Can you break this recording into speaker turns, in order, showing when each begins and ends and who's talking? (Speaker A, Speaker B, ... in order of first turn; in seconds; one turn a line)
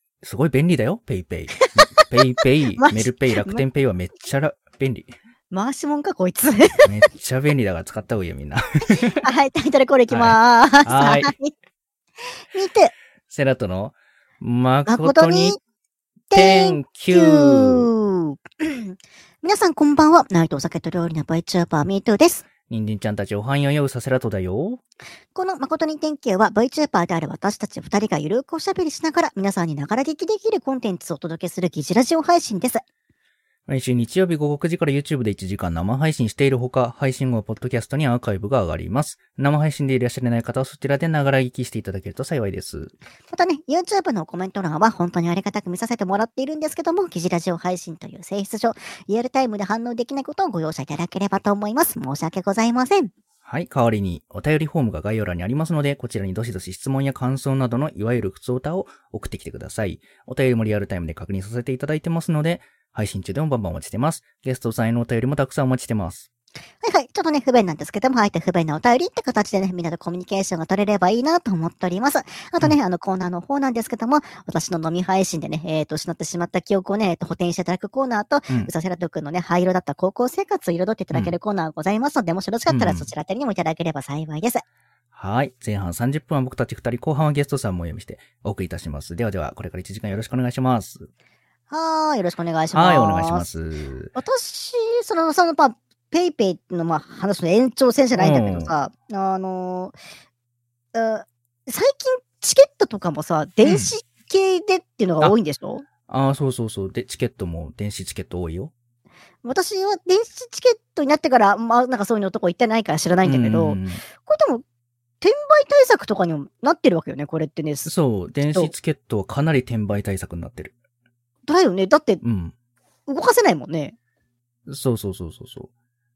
Speaker A: 0.2-5.1
Speaker B: 1.6-2.1
Speaker B: 2.8-3.6
Speaker B: 5.5-6.9
Speaker A: 6.8-9.2
Speaker B: 9.2-11.5
Speaker A: 10.1-11.3
Speaker B: 12.5-12.9
Speaker A: 13.3-15.6
Speaker B: 14.8-15.6
Speaker B: 16.3-22.4
Speaker A: 16.3-17.9
Speaker A: 22.7-24.8
Speaker B: 25.3-32.8
Speaker A: 33.7-42.9
Speaker B: 43.3-53.1
Speaker A: 53.5-66.3
Speaker B: 66.8-84.6
Speaker A: 82.7-83.1
Speaker A: 85.1-91.1
Speaker B: 91.7-93.5
Speaker A: 92.7-94.1
Speaker B: 94.1-100.0
Speaker A: 98.2-98.7
Speaker B: 100.9-105.8
Speaker A: 103.6-103.9
Speaker A: 106.1-108.7
Speaker B: 109.4-114.6
Speaker A: 113.2-114.0
Speaker B: 115.2-117.9
Speaker A: 117.8-120.7
Speaker B: 118.4-118.7
Speaker B: 121.5-122.2
Speaker A: 122.2-122.5
Speaker B: 123.1-124.0
Speaker A: 124.7-125.7